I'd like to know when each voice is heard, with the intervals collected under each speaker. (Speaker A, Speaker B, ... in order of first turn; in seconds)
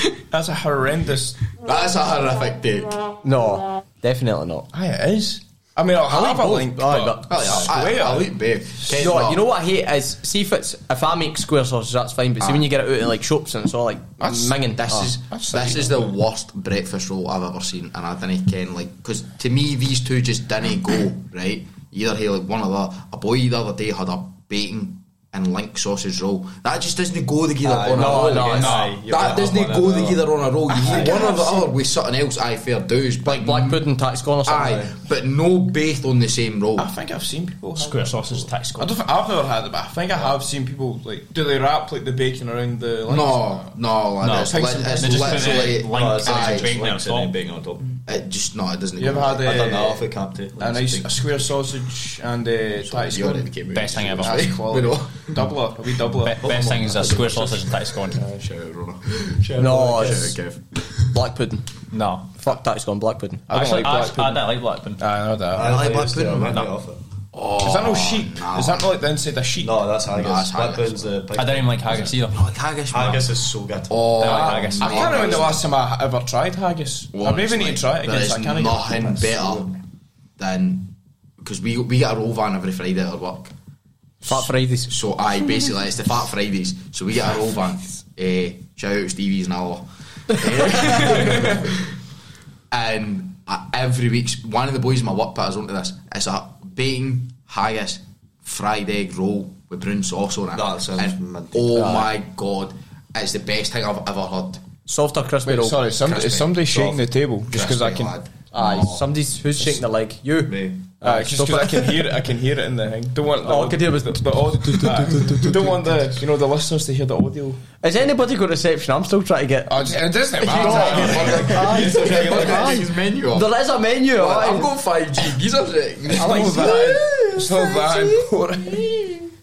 Speaker A: 0.3-1.4, 4.7-8.3, 15.3-16.1, 30.7-31.7, 36.8-43.7, 44.3-45.5, 49.0-53.5, 54.2-56.5, 63.5-65.8, 67.6-69.9, 74.7-79.4, 105.5-108.1, 111.0-117.6, 119.7-122.2, 126.1-129.3
Speaker B: 1.6-3.0, 7.3-9.4, 12.4-12.7, 14.2-33.9, 34.4-36.9, 43.1-46.8, 48.0-49.7, 52.8-55.4, 56.4-60.6, 65.5-66.7, 67.3-68.9, 70.1-71.2, 72.2-73.3, 73.9-75.7, 77.1-79.7, 80.4-83.5, 84.9-91.8, 92.7-104.6, 105.9-107.0, 107.5-109.1, 120.4-123.5, 124.1-126.8
Speaker C: 3.2-4.7, 6.1-7.6, 8.9-15.1, 27.9-28.8, 33.2-34.9, 59.5-60.4, 61.1-61.7, 62.4-63.5, 84.2-84.9, 101.7-102.1, 104.9-105.8, 108.5-112.1, 113.4-115.6, 117.8-124.7, 126.1-128.3
Speaker D: 27.6-30.3, 30.8-31.1, 45.3-47.9, 49.5-51.1, 56.5-57.4, 59.4-60.4, 65.5-67.0, 69.6-72.1, 72.9-75.5, 90.8-91.3, 100.5-101.8, 110.5-110.8
Speaker E: 28.5-29.0, 37.8-39.0, 44.2-47.3, 53.7-54.6, 56.2-58.2, 61.9-62.4, 63.5-65.0, 66.4-66.7, 71.3-72.5, 74.2-75.2